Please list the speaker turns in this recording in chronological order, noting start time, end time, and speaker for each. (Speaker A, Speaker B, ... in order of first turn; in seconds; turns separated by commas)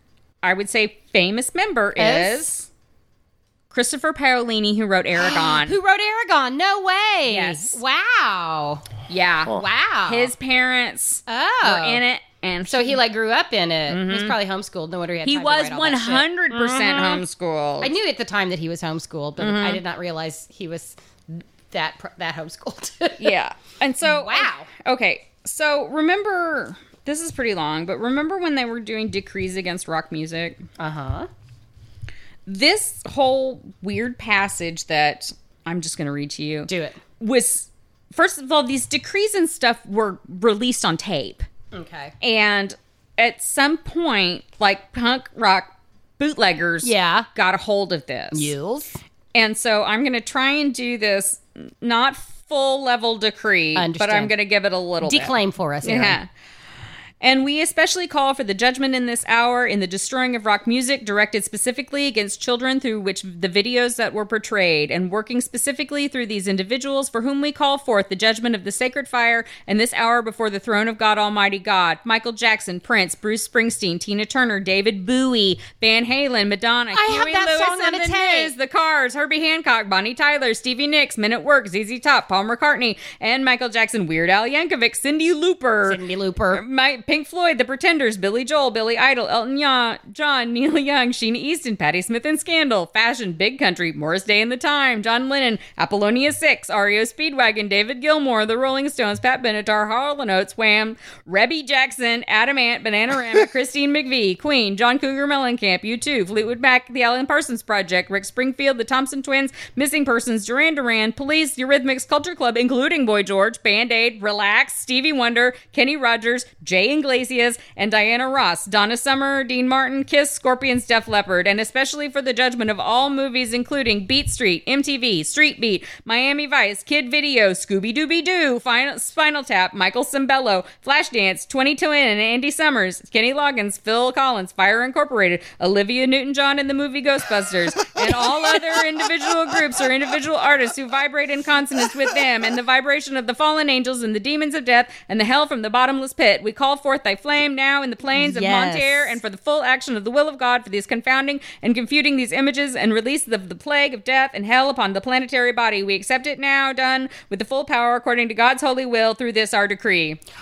Speaker A: 0.4-2.6, Speaker B: 2.0-2.6, Speaker A: 3.7-5.8, Speaker B: 5.2-8.8, Speaker A: 7.3-7.8, Speaker A: 9.1-13.0, Speaker B: 9.5-10.3, Speaker B: 11.3-12.0, Speaker B: 12.7-17.2, Speaker A: 13.9-14.4, Speaker A: 15.2-17.9, Speaker B: 17.8-23.4, Speaker A: 19.4-19.8, Speaker A: 23.2-30.6, Speaker B: 24.0-24.7, Speaker B: 30.8-31.3, Speaker A: 32.5-41.5, Speaker B: 36.7-37.0, Speaker B: 41.7-42.1, Speaker A: 42.2-48.5, Speaker B: 46.8-47.3, Speaker B: 48.3-49.0, Speaker A: 49.4-56.3, Speaker B: 53.8-54.3, Speaker B: 55.0-56.2, Speaker A: 57.2-86.0, Speaker B: 76.9-78.5, Speaker B: 85.9-86.6, Speaker A: 86.5-160.2, Speaker B: 148.2-149.2